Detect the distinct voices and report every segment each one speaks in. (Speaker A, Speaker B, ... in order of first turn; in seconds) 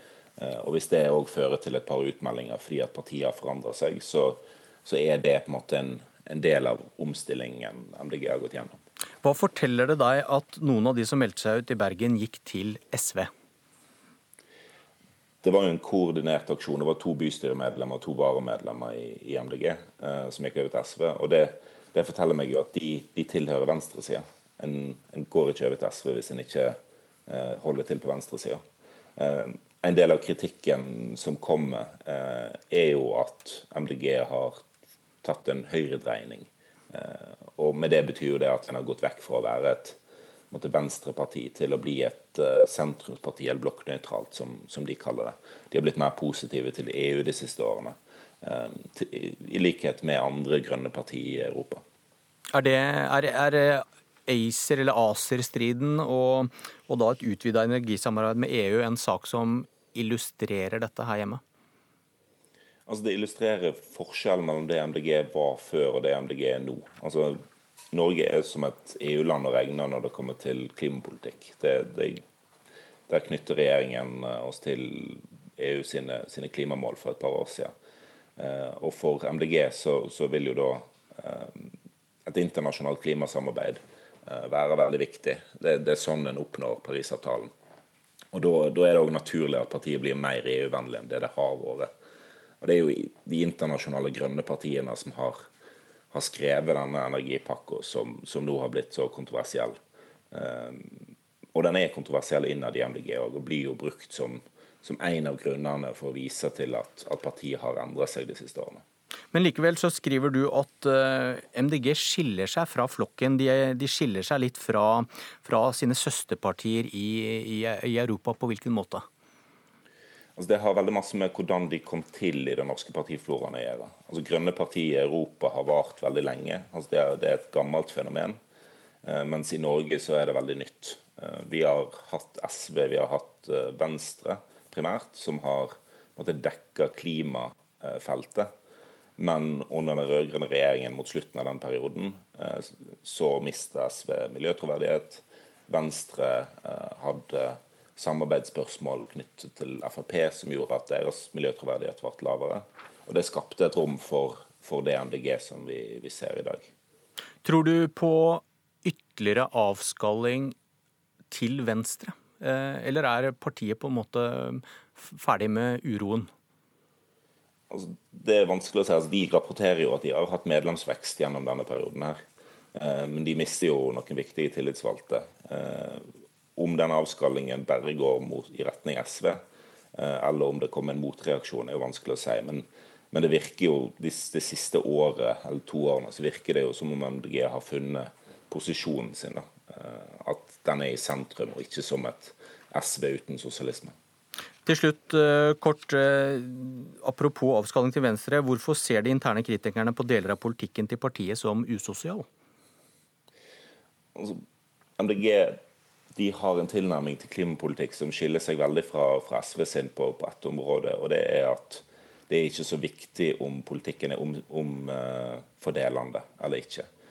Speaker A: 0.4-8.8, 15.4-28.6, 29.2-34.6, 35.2-40.0, 40.5-51.8, 62.9-67.4, 67.9-72.2, 73.1-77.7, 78.4-81.7, 82.3-87.5, 88.3-91.9, 92.6-95.4, 96.1-99.8, 100.3-101.0, 101.5-108.8, 120.4-128.4, 129.1-138.5, 139.2-156.7, 167.7-172.2, 172.7-179.4, 179.9-193.9, 204.2-204.4, 205.0-205.6, 206.2-216.9
Speaker B: 9.2-13.3, 52.5-61.4, 109.3-119.0, 157.4-160.5, 161.3-166.3, 194.7-202.2